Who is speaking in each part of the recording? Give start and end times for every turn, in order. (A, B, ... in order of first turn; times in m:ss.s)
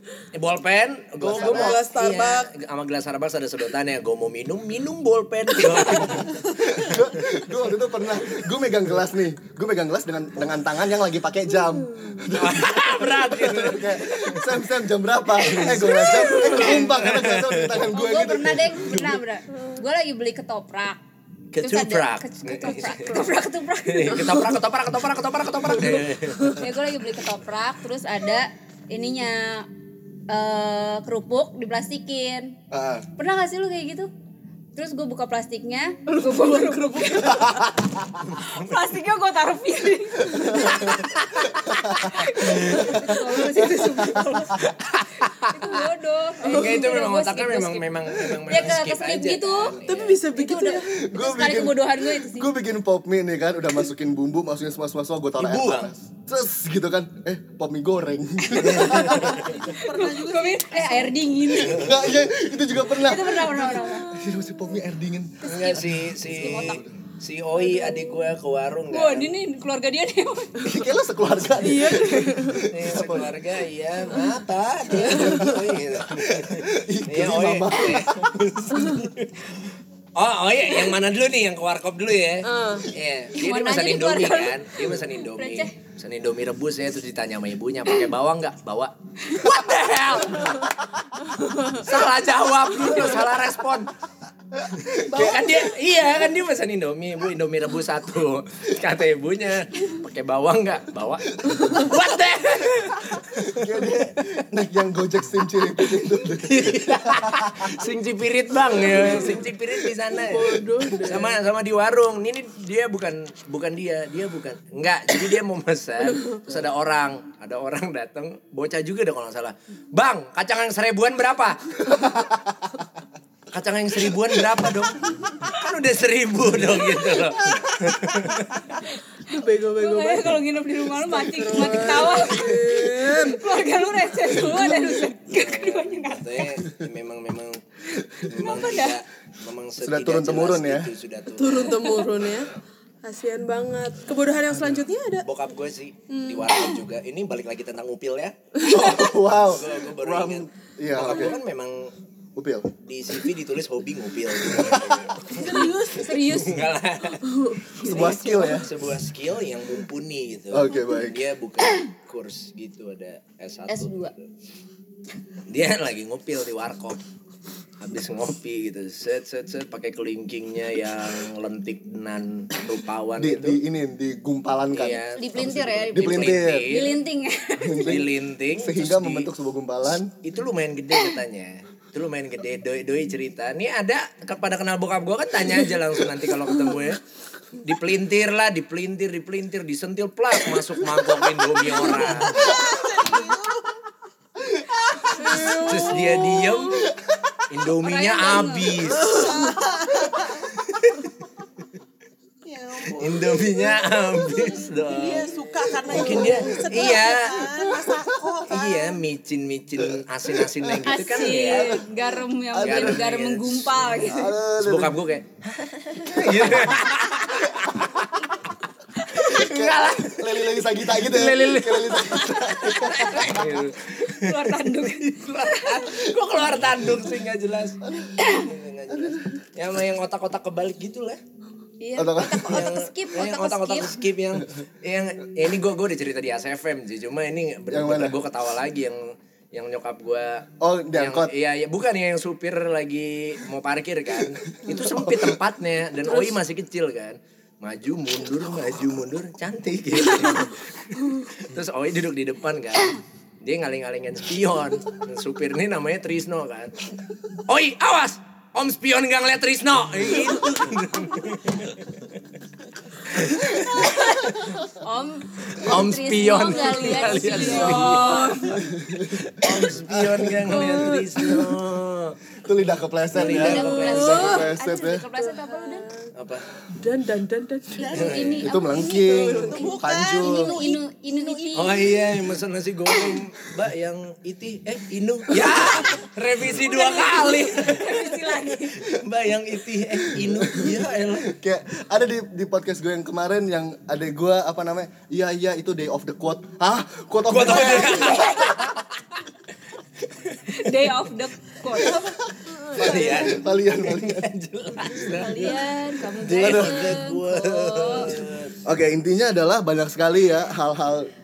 0:00.3-0:06.3 A
0:01.2-0:01.6 B
0:01.3-0:02.5 C
0:01.4-0:01.7 D
0:06.0-0:19.2 B
0:12.3-0:14.6 A
0:15.4-0:17.8 A
0:15.6-0:16.8 C
0:17.9-0:21.0 D
0:21.5-0:23.2 A
0:21.6-0:24.4 D
0:22.6-0:23.3 C
0:23.8-0:26.6 A
0:25.9-0:26.6 C
0:26.6-0:29.7 D
0:30.3-0:32.6 D
0:32.7-0:33.1 B
0:33.2-0:34.1 D
0:34.7-0:37.6 D
0:36.1-0:37.6 C
0:37.3-0:38.0 B
0:38.2-0:38.9 A
0:38.4-0:44.6 D
0:40.3-0:40.9 B
0:40.8-0:41.4 A
0:41.5-0:44.4 B
0:42.4-0:42.9 A
0:44.7-0:45.7 A
0:45.4-0:49.7 D
0:46.4-0:50.2 A
0:46.4-0:46.8 C
0:49.8-0:50.9 C
0:50.3-0:52.5 D
0:51.0-0:59.4 B
0:55.4-0:55.9 A
0:58.6-0:59.6 A
0:58.6-1:02.1 D
0:59.3-1:01.2 E
1:01.5-1:06.9 B
1:01.5-1:02.2 A
1:02.9-1:04.1 D
1:05.4-1:09.4 A
1:05.4-1:06.8 D
1:07.8-1:08.1 D
1:08.9-1:10.7 D
1:10.6-1:13.3 B
1:11.6-1:12.7 C
1:12.7-1:19.6 A
1:15.1-1:18.3 B
1:20.2-1:30.7 A
1:22.4-1:22.9 C
1:23.3-1:25.7 D
1:31.3-1:31.8 C
1:31.7-1:33.9 A
1:34.6-1:35.5 B
1:34.7-1:44.1 A
1:43.4-1:47.8 B
1:46.0-2:01.8 A
1:48.9-1:49.2 C
1:50.1-1:51.4 C
2:01.9-2:02.6 B
2:03.5-2:08.7 A
2:09.3-2:10.4 C
2:09.7-2:16.6 D
2:11.0-2:13.5 C
2:14.6-2:14.8 C
2:15.3-2:17.6 A
2:18.2-2:19.0 D
2:18.2-2:21.9 A
2:19.8-2:20.9 B
2:21.4-2:22.5 C
2:23.0-2:25.2 C
2:25.2-2:28.4 A
2:26.1-2:26.6 C
2:28.6-2:28.8 C
2:28.6-2:31.4 B
2:29.3-2:31.9 A
2:32.4-2:32.7 B
2:32.8-2:35.4 A
2:34.4-2:35.2 B
2:35.3-2:36.2 E
2:35.4-2:36.6 D
2:36.2-2:37.2 A
2:37.2-2:37.7 C
2:37.8-2:44.2 A
2:37.8-2:38.7 B
2:37.8-2:38.2 D
2:40.5-2:41.2 B
2:43.7-2:44.1 D
2:45.5-2:47.0 A
2:47.8-2:53.6 A
2:53.2-2:56.8 B
2:54.7-2:57.0 A
2:55.1-2:58.0 D
2:57.6-3:00.1 B
2:57.8-2:59.3 A
3:00.2-3:07.0 A
3:07.6-3:12.5 A
3:11.7-3:13.8 E
3:14.4-3:15.6 B
3:14.9-3:15.6 E
3:15.2-3:16.8 C
3:15.6-3:16.9 A
3:16.7-3:17.4 B
3:17.5-3:19.4 A
3:17.8-3:19.0 D
3:18.9-3:20.5 E
3:20.5-3:21.1 A
3:22.4-3:29.0 E
3:22.9-3:27.5 A
3:25.8-3:26.9 B
3:28.5-3:31.8 A
3:29.8-3:33.1 B
3:30.8-3:34.3 D
3:32.6-3:35.3 A
3:33.9-3:35.0 B
3:35.9-3:37.9 B
3:36.1-3:38.1 A
3:39.1-3:51.2 A
3:39.1-3:43.7 B
3:42.6-3:43.2 D
3:44.0-3:45.9 D
3:47.9-3:48.1 B
3:48.2-3:48.4 D
3:48.9-3:49.2 B
3:51.8-3:54.0 D
3:52.0-3:52.7 B
3:52.4-4:16.8 A
3:57.7-3:58.2 B
4:00.6-4:01.3 B
4:04.7-4:05.3 B
4:17.5-4:22.2 A
4:23.1-4:24.5 A
4:23.8-4:28.5 D
4:25.5-4:28.6 A
4:26.8-4:28.6 C
4:28.5-4:31.6 B
4:29.2-4:32.2 A
4:30.6-4:31.0 C
4:32.4-4:35.0 B
4:33.1-4:34.5 A
4:33.2-4:35.9 D
4:33.6-4:34.5 C
4:35.1-4:36.1 C
4:36.2-4:36.5 A
4:36.7-4:37.9 C
4:37.8-4:42.0 E
4:37.9-4:41.9 D
4:37.9-4:38.4 A
4:38.4-4:40.5 B
4:41.5-4:51.3 A
4:46.6-4:48.9 D
4:50.1-4:58.4 B
4:57.3-4:59.2 A
4:58.0-4:58.5 D
5:00.1-5:00.9 A
5:00.5-5:02.1 D
5:02.5-5:03.4 C
5:02.8-5:05.6 A
5:02.8-5:05.3 B
5:05.1-5:08.1 D
5:06.2-5:08.6 A
5:06.3-5:07.0 B
5:08.6-5:11.1 B